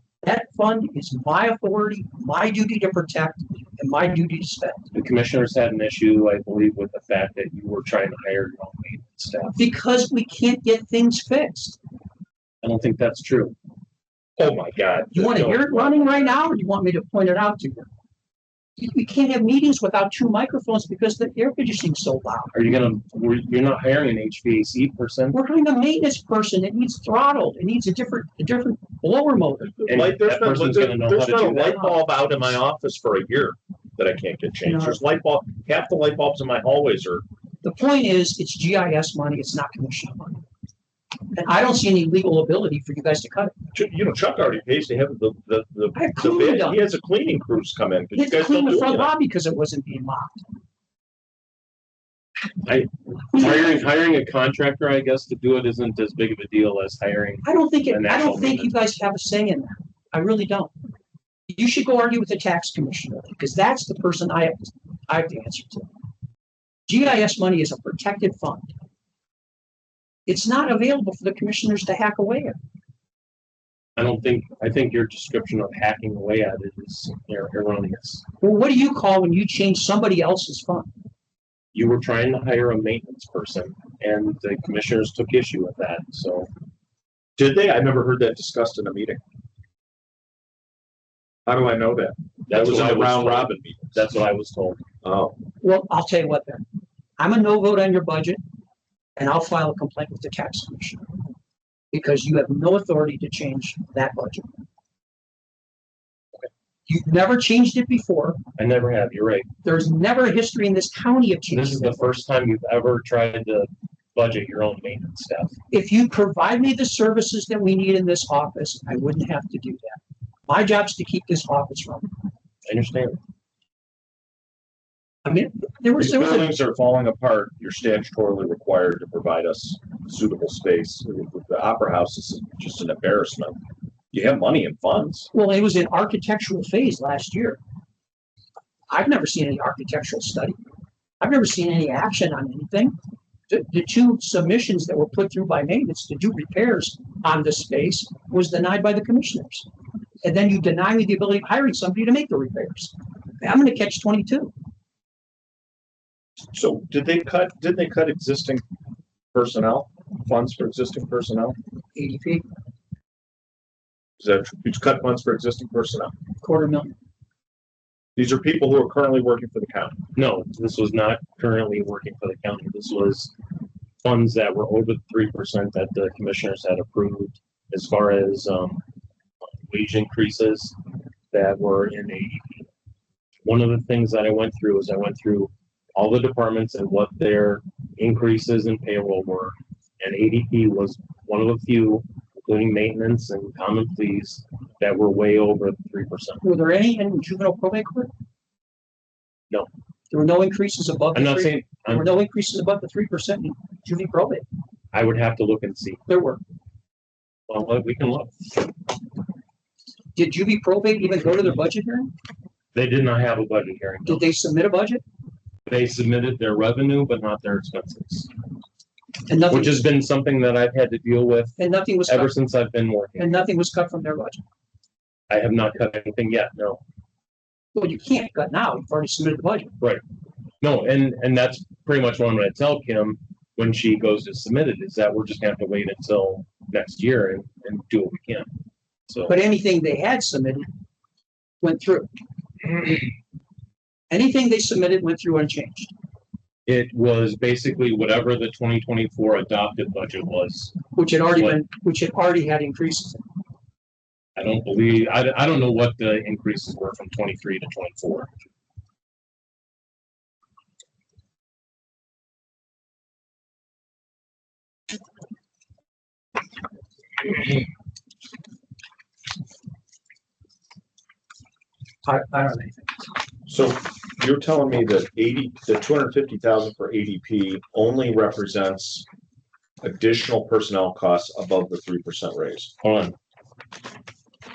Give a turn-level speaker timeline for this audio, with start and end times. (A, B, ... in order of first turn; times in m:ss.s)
0:00.2-0:04.9 A
0:04.9-0:09.6 B
0:09.6-0:11.8 A
0:12.6-0:13.5 B
0:14.4-0:16.4 C
0:15.1-0:17.9 A
0:18.8-0:22.5 A
0:22.5-0:25.4 B
0:25.3-0:29.8 A
0:29.7-0:37.2 C
0:29.9-0:31.8 B
0:31.5-0:32.0 A
0:34.6-0:35.0 A
0:37.6-0:40.4 A
0:41.3-0:43.5 A
0:43.7-0:49.1 C
0:45.9-0:46.9 A
0:48.1-0:50.4 A
0:52.6-0:58.7 B
0:57.4-1:00.7 A
1:01.5-1:05.9 A
1:06.9-1:08.7 A
1:10.3-1:12.6 A
1:14.0-1:18.2 B
1:18.4-1:20.9 A
1:21.7-1:26.5 B
1:27.4-1:29.2 C
1:31.4-1:34.0 C
1:32.5-1:34.8 B
1:35.0-1:35.4 C
1:35.6-1:36.6 A
1:37.2-1:38.4 A
1:39.2-1:41.0 A
1:41.9-1:44.5 A
1:46.9-1:48.4 A
1:48.6-1:49.5 B
1:49.6-1:52.1 A
1:51.5-1:55.5 B
1:55.7-2:02.1 A
2:02.6-2:03.2 B
2:05.2-2:06.5 A
2:06.0-2:13.6 C
2:14.1-2:15.3 C
2:15.3-2:17.6 A
2:18.9-2:20.6 A
2:21.2-2:23.0 A
2:23.5-2:29.6 A
2:30.2-2:34.5 A
2:36.5-2:38.6 C
2:39.3-2:41.6 C
2:42.0-2:42.4 A
2:44.2-2:46.1 C
2:46.4-2:46.9 A
2:48.2-2:50.0 C
2:50.1-2:53.3 B
2:54.0-2:58.8 B
2:59.7-3:00.7 B
3:01.3-3:02.7 B
3:03.4-3:16.4 B
3:16.4-3:18.1 A
3:20.1-3:24.4 A
3:21.1-3:22.2 B
3:24.9-3:26.0 B
3:26.1-3:26.4 A
3:27.5-3:28.5 B
3:30.1-3:32.1 A
3:32.7-3:34.2 B
3:34.0-3:35.0 A
3:35.6-3:38.3 B
3:39.3-3:39.9 A
3:39.5-3:43.4 B
3:41.6-3:42.3 A
3:43.2-3:44.4 A
3:45.3-3:46.8 B
3:47.7-3:49.7 A
3:50.6-3:58.5 B
3:59.1-3:59.4 B
3:59.3-4:00.7 A
4:01.6-4:02.1 A
4:04.1-4:05.9 A
4:06.7-4:10.8 B
4:10.9-4:13.2 A
4:11.3-4:11.6 B
4:14.4-4:18.3 B
4:32.0-4:33.0 A
4:33.5-4:39.0 C
4:39.8-4:42.7 C
4:42.8-4:43.1 B